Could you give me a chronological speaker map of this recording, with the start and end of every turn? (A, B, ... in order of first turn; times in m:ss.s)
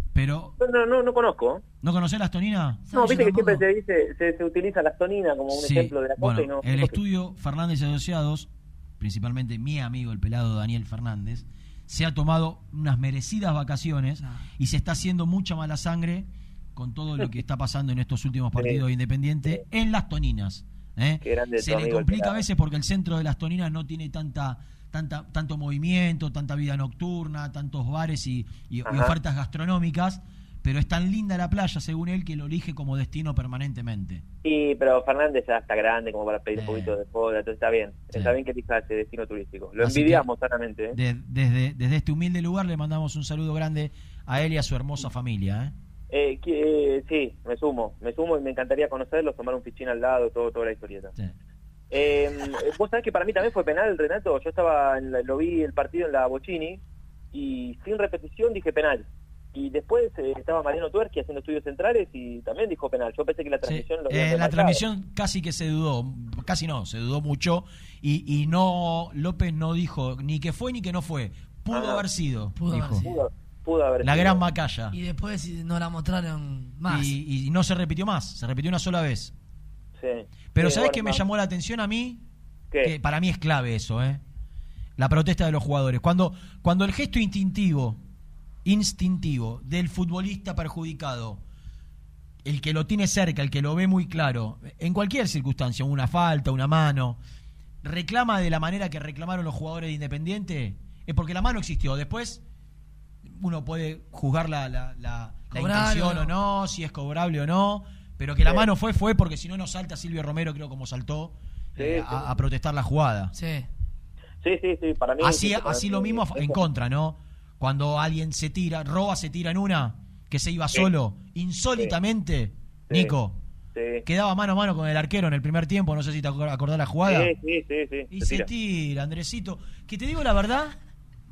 0:00.1-0:00.5 A
0:00.6-0:01.6 B
0:01.8-0:02.8 A
0:02.9-0:03.6 C
0:02.9-0:07.0 B
0:05.5-0:08.5 A
0:09.0-0:34.2 A
0:21.2-0:22.4 B
0:28.9-0:29.1 B
0:34.4-0:41.0 B
0:36.6-0:36.9 A
0:39.8-0:40.2 A
0:40.9-0:45.7 A
0:46.1-0:51.1 B
0:51.9-0:56.8 B
0:57.3-1:04.8 B
1:03.6-1:13.0 A
1:11.7-1:12.0 B
1:12.6-1:13.1 C
1:13.0-1:14.4 B
1:14.0-1:15.0 A
1:14.9-1:17.1 C
1:16.9-1:19.3 A
1:20.0-1:21.2 B
1:20.5-1:22.2 A
1:22.8-1:24.2 A
1:25.0-1:28.0 A
1:28.6-1:31.4 A
1:32.4-1:37.2 A
1:37.8-1:42.4 A
1:43.2-1:53.3 A
1:45.5-1:46.3 C
1:51.8-1:52.2 B
1:53.3-1:53.7 C
1:54.4-1:56.6 B
1:55.2-2:03.4 A
2:02.9-2:03.1 B
2:03.7-2:04.0 B
2:04.0-2:07.3 A
2:07.0-2:08.5 B
2:08.1-2:10.7 A